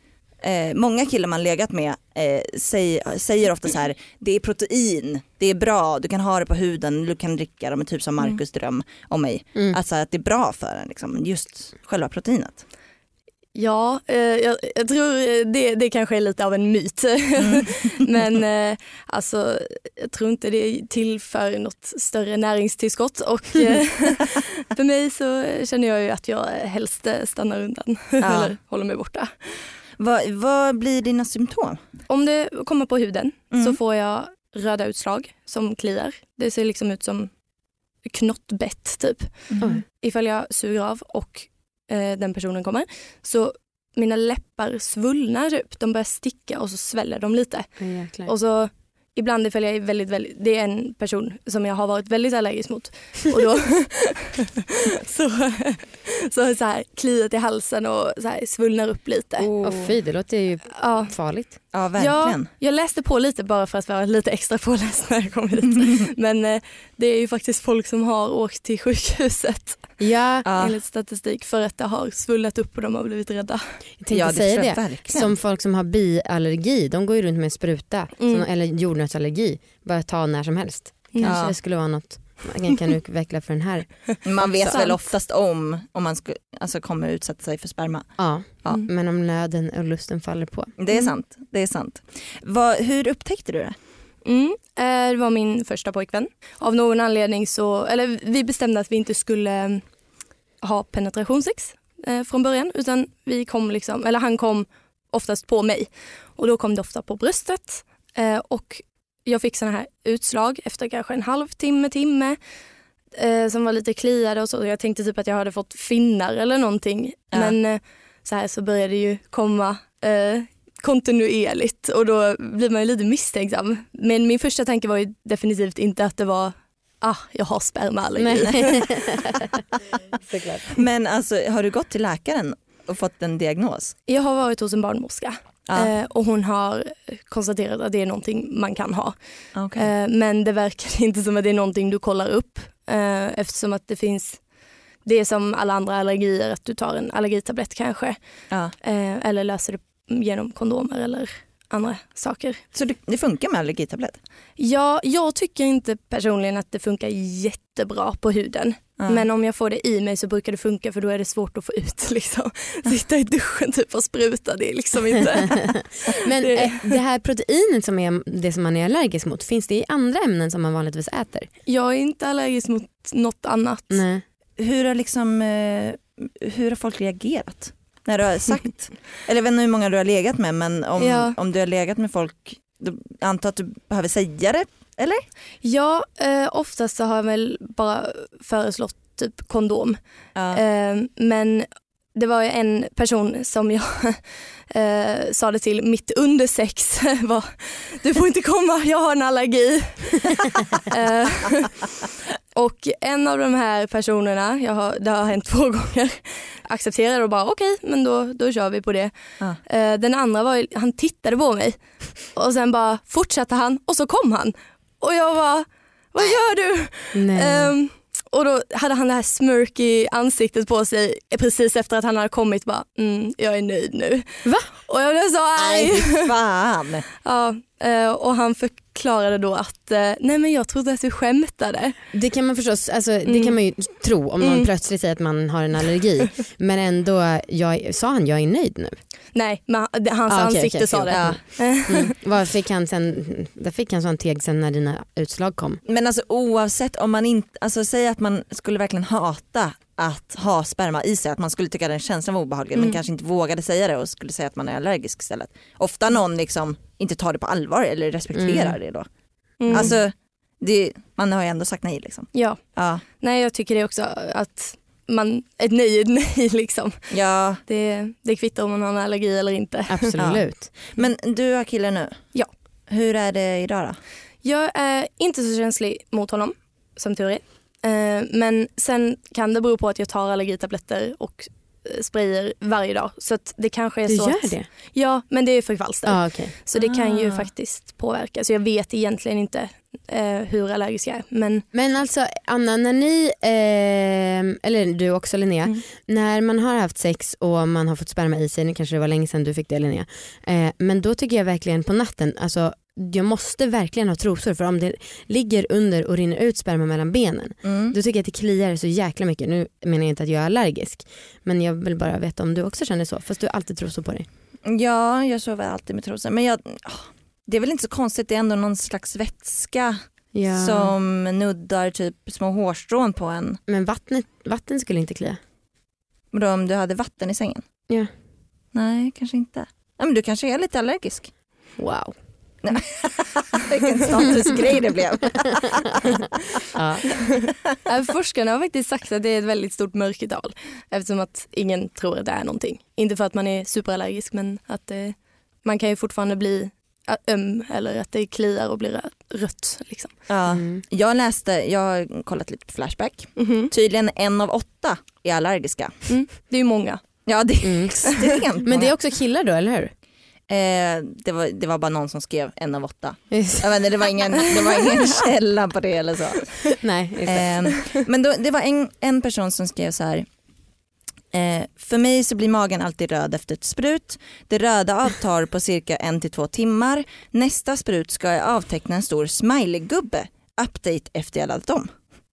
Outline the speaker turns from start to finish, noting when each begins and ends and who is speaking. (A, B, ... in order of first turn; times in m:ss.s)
0:00.4-0:12.6 A
0:13.6-0:29.6 B
0:17.4-0:17.7 A
0:28.2-0:28.6 A
0:30.0-0:31.8 A
0:32.1-0:37.3 B
0:33.5-0:33.8 A
0:38.0-0:59.5 B
0:39.5-0:39.8 A
0:47.8-0:48.3 C
0:59.4-0:59.9 A
0:59.6-1:01.6 C
1:00.8-1:13.6 B
1:01.7-1:02.5 A
1:10.0-1:10.5 C
1:10.4-1:10.8 A
1:14.0-1:24.2 C
1:14.1-1:15.3 A
1:18.2-1:18.5 B
1:21.1-1:21.4 B
1:21.2-1:21.6 A
1:24.2-1:28.8 A
1:24.7-1:25.0 B
1:28.2-1:30.7 C
1:30.8-1:33.8 A
1:34.2-1:39.8 B
1:40.6-1:52.4 B
1:53.1-2:09.0 B
2:08.2-2:09.4 C
2:10.3-2:10.8 C
2:10.7-2:14.0 A
2:14.1-2:24.5 B
2:15.7-2:15.9 A
2:19.5-2:19.9 A
2:25.0-2:32.6 B
2:32.7-2:34.2 A
2:34.6-2:47.0 B
2:39.0-2:39.3 A
2:46.1-2:51.5 C
2:51.7-2:54.0 B
2:53.9-2:54.2 C
2:54.6-3:05.3 A
3:01.0-3:01.4 B
3:05.6-3:21.8 B
3:10.4-3:10.6 A
3:22.5-3:46.3 B
3:37.1-3:37.7 C
3:45.6-3:47.1 A
3:47.2-3:52.0 B
3:52.1-3:59.0 C
3:53.2-3:53.6 B
3:54.4-3:54.7 B
3:59.3-4:02.2 B
4:00.3-4:05.8 C
4:01.1-4:01.4 A
4:05.8-4:19.1 A
4:18.3-4:18.8 C
4:19.6-4:20.0 B
4:19.7-4:23.0 A
4:22.3-4:30.2 B
4:27.1-4:27.6 A
4:29.9-4:30.8 C
4:30.2-4:34.0 A
4:34.4-4:51.6 B
4:44.1-4:44.7 C
4:46.0-4:46.5 C
4:46.8-4:47.5 A
4:51.7-5:14.3 C
5:07.6-5:08.0 A
5:14.6-5:23.6 A
5:20.3-5:20.9 C
5:23.7-5:25.4 C
5:26.3-5:27.7 A
5:28.7-5:31.3 A
5:31.8-5:32.2 C
5:32.6-5:36.6 A
5:36.7-5:37.1 C
5:37.8-5:50.2 B
5:50.3-5:56.1 A
5:50.5-5:50.8 C
5:53.4-5:53.7 B
5:56.1-5:57.2 B
5:57.3-5:58.9 A
5:57.6-5:59.9 C
6:00.5-6:10.3 A
6:03.3-6:03.6 C
6:06.8-6:07.7 C
6:11.3-6:21.9 A